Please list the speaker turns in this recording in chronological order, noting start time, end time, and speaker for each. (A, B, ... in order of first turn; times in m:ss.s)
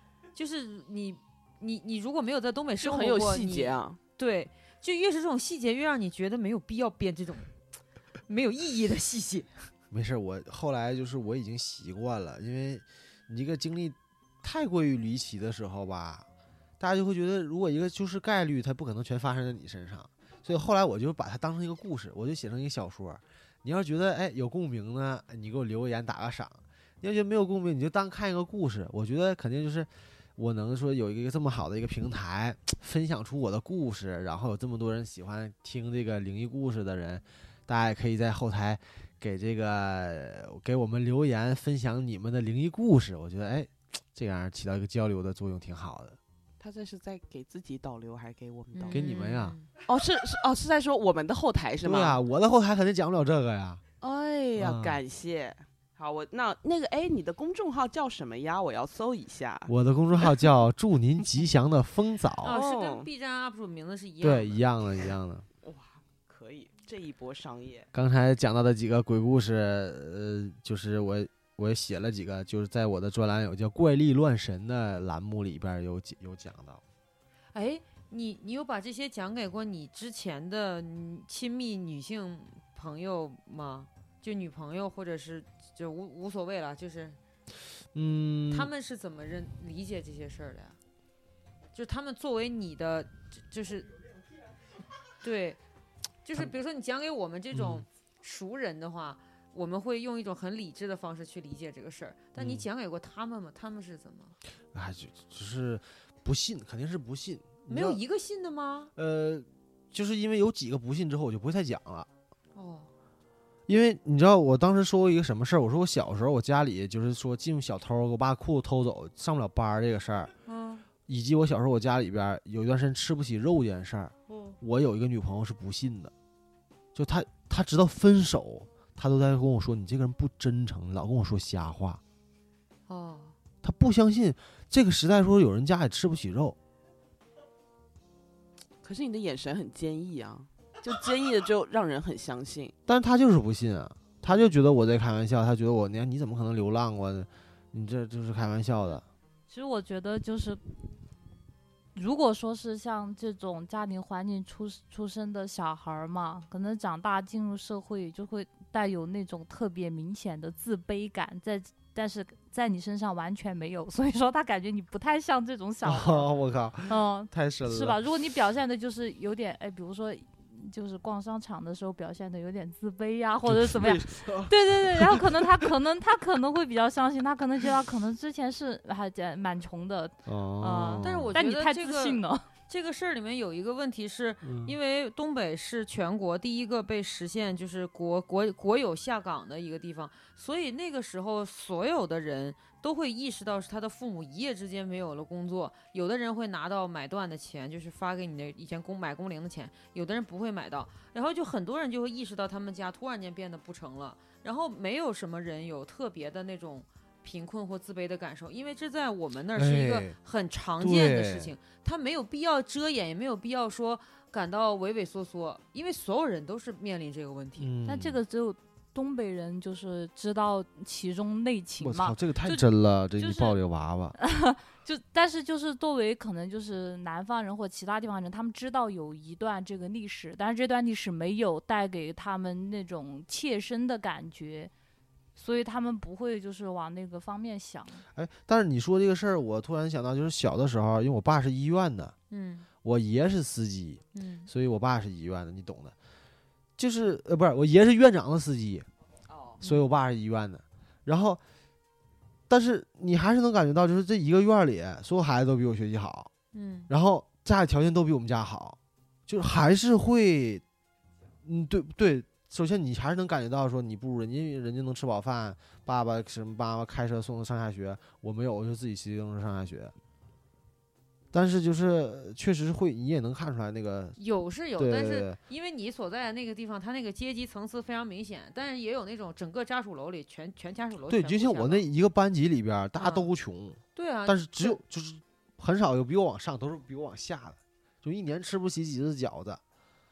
0:00.4-0:07.5 A
0:02.8-0:04.0 B
0:08.3-0:09.5 A
0:09.9-0:16.3 C
0:16.8-0:46.2 C
0:46.6-0:49.0 B
0:48.8-0:49.7 A
0:48.9-0:49.6 C
0:49.9-0:52.2 B
0:51.8-0:53.8 C
0:54.0-0:59.7 B
0:54.6-0:55.0 C
0:59.7-1:02.6 C
1:02.4-1:04.6 A
1:02.5-1:03.1 B
1:04.2-1:05.5 C
1:05.6-1:07.9 B
1:07.9-1:16.8 C
1:17.5-1:27.2 A
1:27.9-1:28.7 C
1:28.5-1:30.8 A
1:31.7-1:33.9 A
1:35.2-1:35.6 A
1:36.2-1:44.4 A
1:37.5-1:37.8 C
1:42.4-1:42.6 C
1:44.7-1:48.0 C
1:47.7-1:48.9 A
1:49.0-1:52.1 C
1:52.6-1:52.9 A
1:53.7-2:00.3 C
2:00.5-2:00.8 A
2:01.1-2:06.1 C
2:04.3-2:04.6 A
2:07.0-2:12.0 C
2:12.9-2:13.4 A
2:13.6-2:16.6 C
2:18.8-2:22.7 B
2:22.9-2:29.0 C
2:29.5-2:30.6 D
2:32.0-2:46.3 D
2:45.8-2:48.0 C
2:46.9-3:02.5 D
2:53.4-2:55.7 C
3:00.3-3:01.3 C
3:01.0-3:37.7 A
3:04.4-3:04.8 C
3:29.6-3:30.2 C
3:30.8-3:31.6 C
3:37.6-3:38.2 C
3:37.8-3:42.2 D
3:41.8-3:44.2 C
3:43.2-3:43.6 D
3:44.2-3:54.7 D
3:55.4-3:58.0 D
3:58.1-4:02.2 C
4:02.3-4:02.7 A
4:02.8-4:06.0 C
4:04.1-4:04.5 A
4:06.8-4:08.9 C
4:09.3-4:09.6 B
4:09.6-4:11.4 C
4:12.5-4:16.3 C
4:16.5-4:16.9 A
4:16.9-4:20.6 C
4:21.4-4:29.9 C
4:31.3-4:34.2 C
4:34.2-4:41.8 A
4:34.8-4:35.4 C
4:41.1-4:49.6 C
4:43.0-4:43.3 A
4:44.0-4:44.8 A